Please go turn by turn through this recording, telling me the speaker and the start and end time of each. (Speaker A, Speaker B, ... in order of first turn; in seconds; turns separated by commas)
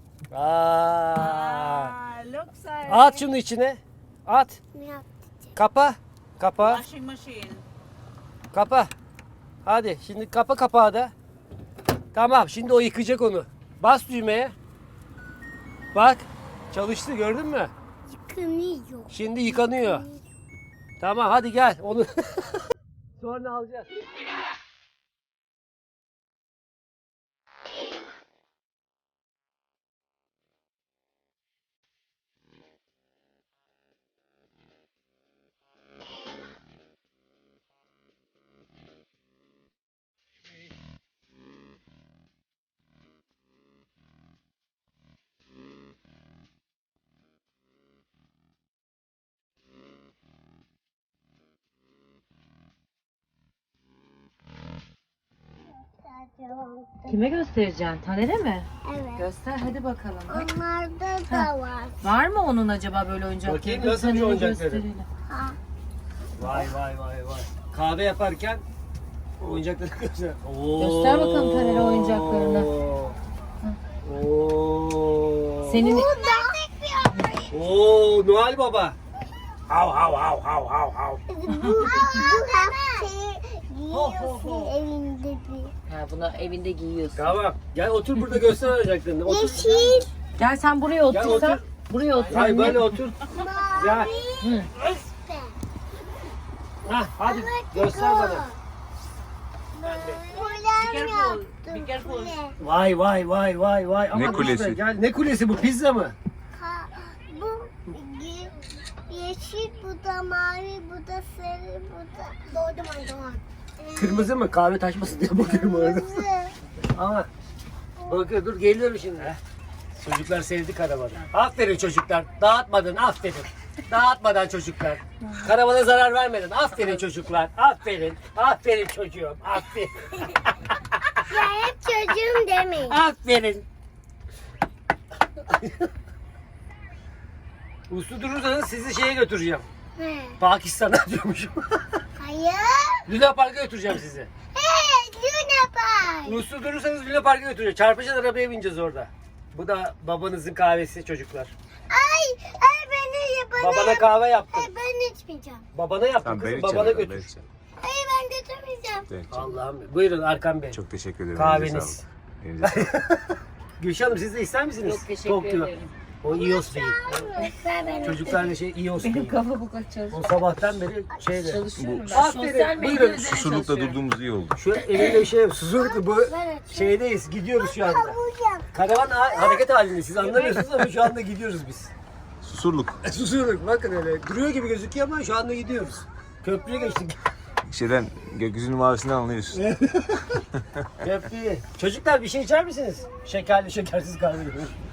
Speaker A: 0.3-1.9, Speaker B: 1.1-3.2, Speaker A: 2.9-4.6, Speaker C: 4.7-5.1, Speaker A: 5.5-6.8, Speaker B: 6.6-7.6, Speaker A: 8.5-8.9, Speaker A: 9.7-11.1, Speaker A: 12.1-14.5, Speaker A: 15.9-17.7, Speaker C: 18.1-20.2, Speaker A: 19.1-20.1, Speaker A: 21.0-22.4, Speaker A: 23.2-23.9, Speaker C: 55.9-57.2, Speaker D: 57.1-60.5, Speaker C: 58.8-59.3, Speaker C: 60.3-62.0, Speaker D: 61.3-65.1, Speaker A: 63.4-64.8, Speaker C: 65.2-65.6, Speaker A: 66.4-68.6, Speaker A: 69.4-73.2, Speaker D: 70.8-72.7, Speaker A: 74.0-75.9, Speaker D: 75.6-76.5, Speaker C: 75.8-77.6, Speaker A: 77.5-79.0, Speaker A: 79.7-81.2, Speaker C: 81.3-85.7, Speaker D: 81.5-82.2, Speaker A: 83.9-84.7, Speaker D: 85.9-87.3, Speaker A: 87.1-90.1, Speaker C: 89.2-90.1, Speaker D: 90.4-93.0, Speaker A: 91.1-91.7, Speaker A: 92.2-93.2, Speaker C: 93.3-95.6, Speaker A: 93.8-94.1, Speaker D: 94.4-94.7, Speaker A: 96.8-98.5, Speaker C: 97.2-98.6, Speaker C: 99.8-102.6, Speaker B: 99.8-102.4, Speaker A: 102.6-106.2, Speaker E: 104.1-104.8, Speaker C: 106.5-114.3, Speaker A: 114.0-116.3, Speaker C: 115.4-116.6, Speaker A: 116.9-117.3, Speaker A: 118.1-119.4, Speaker A: 120.0-130.4, Speaker C: 131.2-133.0, Speaker A: 132.8-133.6, Speaker A: 135.4-135.9, Speaker A: 137.9-139.6, Speaker C: 140.0-140.4, Speaker A: 140.4-141.8, Speaker C: 142.2-143.1, Speaker A: 143.1-144.3, Speaker C: 144.5-146.4, Speaker A: 146.2-151.5, Speaker C: 151.9-155.7, Speaker A: 153.6-154.7, Speaker A: 155.7-157.3, Speaker E: 156.2-157.4, Speaker C: 157.8-159.1, Speaker E: 159.1-159.5, Speaker A: 159.3-160.8, Speaker E: 160.7-162.9, Speaker A: 161.3-162.0, Speaker A: 162.6-167.3, Speaker D: 164.8-165.9, Speaker C: 166.3-168.5, Speaker A: 168.0-169.4, Speaker D: 169.0-170.3, Speaker A: 170.1-173.3, Speaker D: 171.4-174.0, Speaker E: 171.8-172.2, Speaker E: 173.1-174.6, Speaker A: 174.6-178.2, Speaker C: 175.8-177.0, Speaker C: 177.6-178.7, Speaker A: 178.7-181.9, Speaker C: 179.3-179.6, Speaker D: 180.2-180.6, Speaker E: 182.4-183.0, Speaker A: 183.0-187.2, Speaker E: 187.7-189.7, Speaker A: 189.5-190.2, Speaker E: 190.6-190.8, Speaker A: 191.0-194.8